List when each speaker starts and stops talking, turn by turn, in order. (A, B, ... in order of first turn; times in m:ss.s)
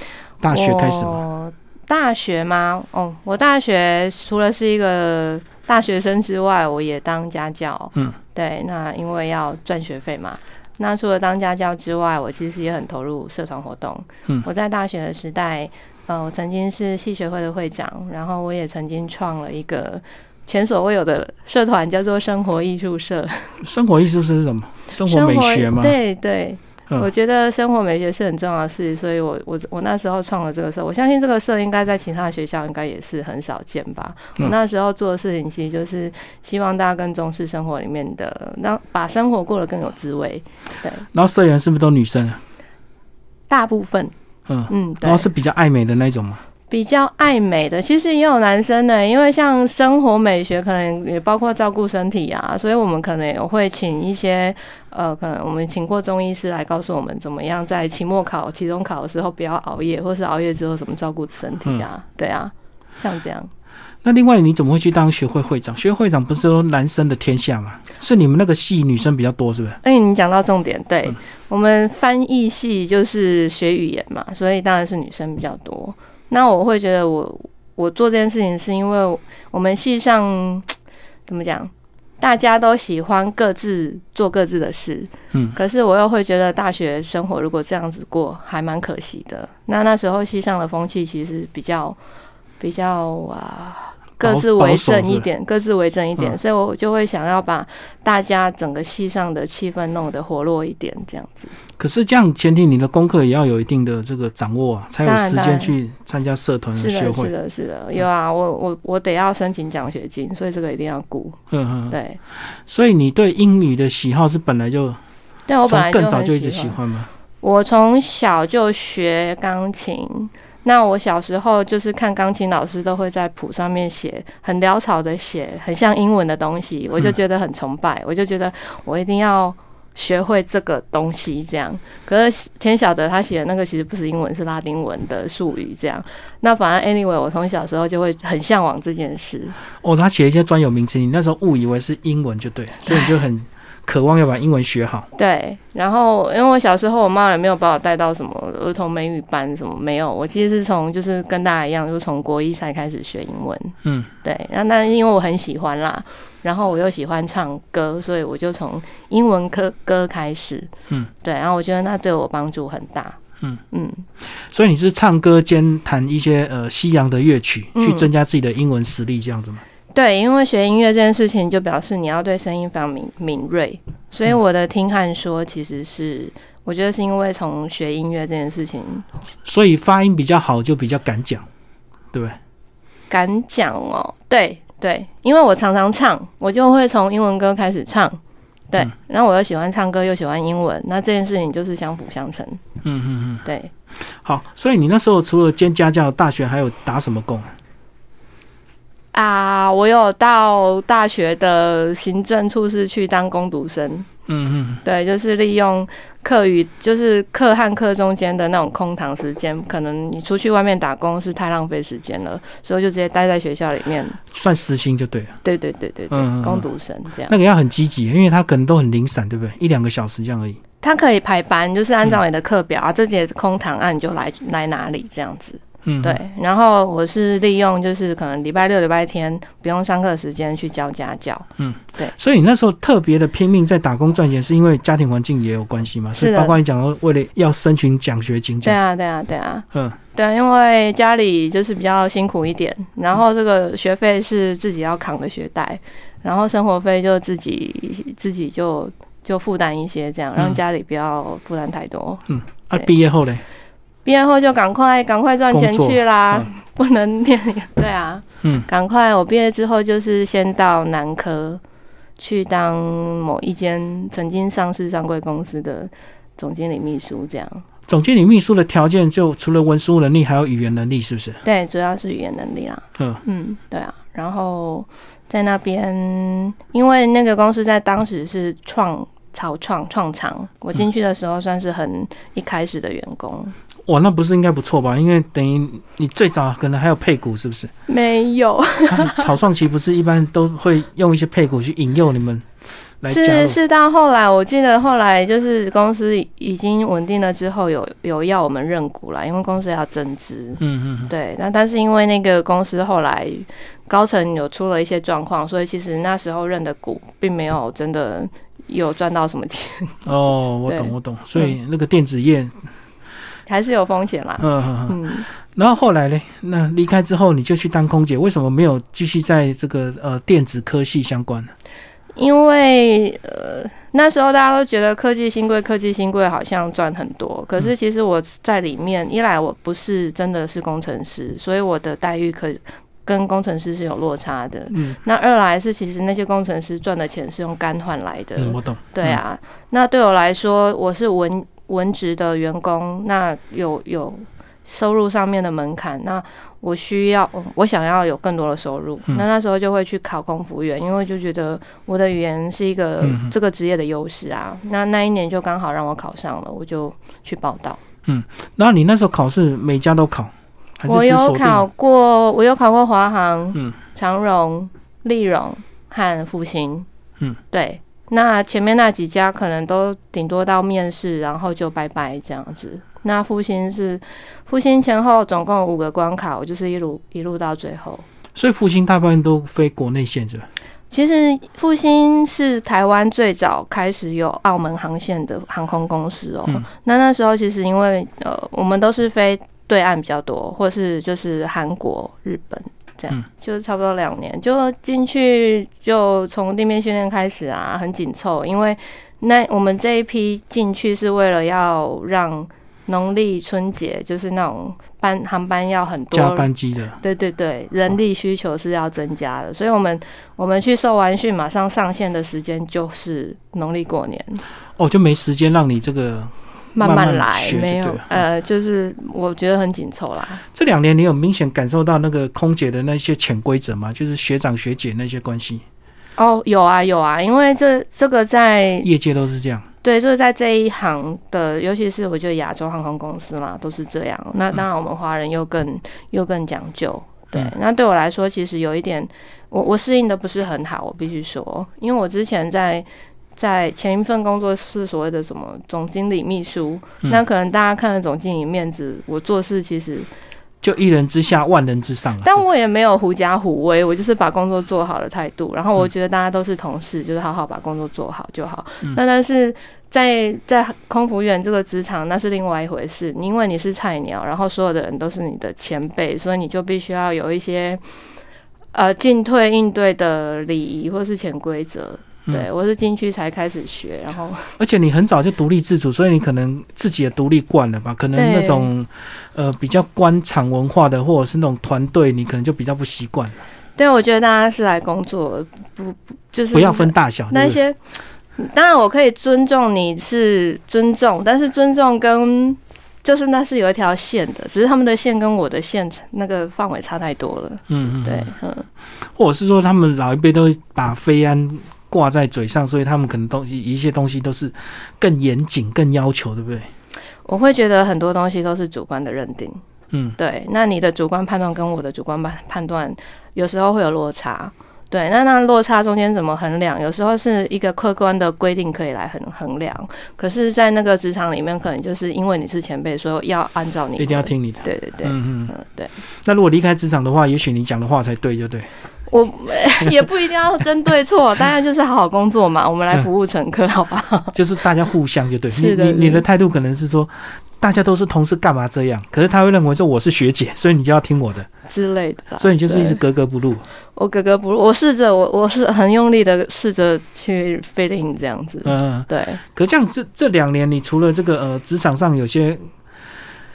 0:00.4-0:01.2 A
0:00.5-0:23.6 B
0:23.6-0:26.0 A
0:25.0-0:41.1 B
0:41.1-0:42.4 A
0:43.5-0:44.1 B
0:44.5-0:46.4 A
0:44.7-0:45.3 B
0:46.7-1:03.5 B
1:04.0-1:09.8 A
1:09.8-1:20.7 B
1:21.3-1:32.0 B
1:32.6-1:41.5 B
1:34.2-1:35.2 A
1:41.8-1:47.3 A
1:45.0-1:45.7 B
1:46.8-1:51.4 B
1:51.5-1:55.0 A
1:51.9-1:52.2 B
1:55.5-1:56.8 B
1:55.6-1:57.1 A
1:57.4-2:19.6 B
2:19.8-2:25.1 A
2:22.8-2:23.2 B
2:25.1-2:40.7 B
2:33.8-2:34.1 A
2:41.2-2:43.2 B
2:43.7-2:44.1 B
2:44.2-2:49.6 A
2:47.7-2:48.1 B
2:49.9-2:59.1 B
2:59.4-3:01.4 A
3:03.1-3:08.2 B
3:08.7-3:12.6 B
3:12.8-3:13.4 A
3:13.4-3:13.7 B
3:14.0-3:17.5 A
3:19.1-3:24.1 B
3:24.3-3:24.8 A
3:24.8-3:34.2 B
3:34.3-3:35.4 A
3:35.4-3:37.3 B
3:36.1-3:36.6 A
3:37.3-3:40.6 A
3:40.8-3:52.1 B
3:45.8-3:46.2 A
3:51.6-3:58.8 A
3:56.1-3:56.6 B
3:58.6-4:12.2 B
3:59.7-4:00.0 A
4:12.3-4:13.4 A
4:14.0-4:21.6 B
4:15.5-4:16.5 A
4:18.4-4:18.7 A
4:22.2-4:27.6 B
4:27.9-4:31.4 A
4:31.4-4:43.5 B
4:43.9-4:47.7 A
4:47.9-4:49.3 B
4:48.9-4:52.5 A
4:53.0-4:53.6 A
4:53.1-5:10.0 B
5:00.6-5:01.1 A
5:10.0-5:12.6 A
5:10.7-5:11.5 B
5:13.5-5:15.2 B
5:14.4-5:21.5 A
5:22.1-5:57.8 B
5:34.7-5:35.0 A
5:38.4-5:39.2 A
5:53.0-5:53.3 A
5:58.0-6:01.6 A
6:00.9-6:06.9 B
6:07.5-6:18.0 B
6:18.3-6:20.5 A
6:20.9-6:46.5 B
6:46.1-6:47.0 A
6:47.0-6:54.4 B
6:54.8-6:58.2 A
6:56.8-7:00.4 B
7:00.5-7:05.6 A
7:06.2-7:08.9 B
7:08.8-7:09.6 A
7:09.8-7:30.1 B
7:30.6-7:32.4 A
7:32.2-7:47.8 B
7:48.7-7:54.5 B
7:54.6-8:03.4 A
7:58.1-7:58.7 B
8:03.8-8:07.8 B
8:06.5-8:07.6 A
8:08.4-8:18.7 B
8:17.7-8:18.3 A
8:19.0-8:26.7 A
8:27.2-8:29.6 B
8:29.9-8:30.2 A
8:30.2-8:45.9 B
8:44.0-8:45.5 A
8:46.1-8:48.7 A
8:49.1-8:54.3 B
8:54.3-9:01.5 A
8:55.5-8:56.2 B
9:01.7-9:03.0 B
9:02.4-9:03.6 A
9:03.9-9:09.4 B
9:08.6-9:12.7 A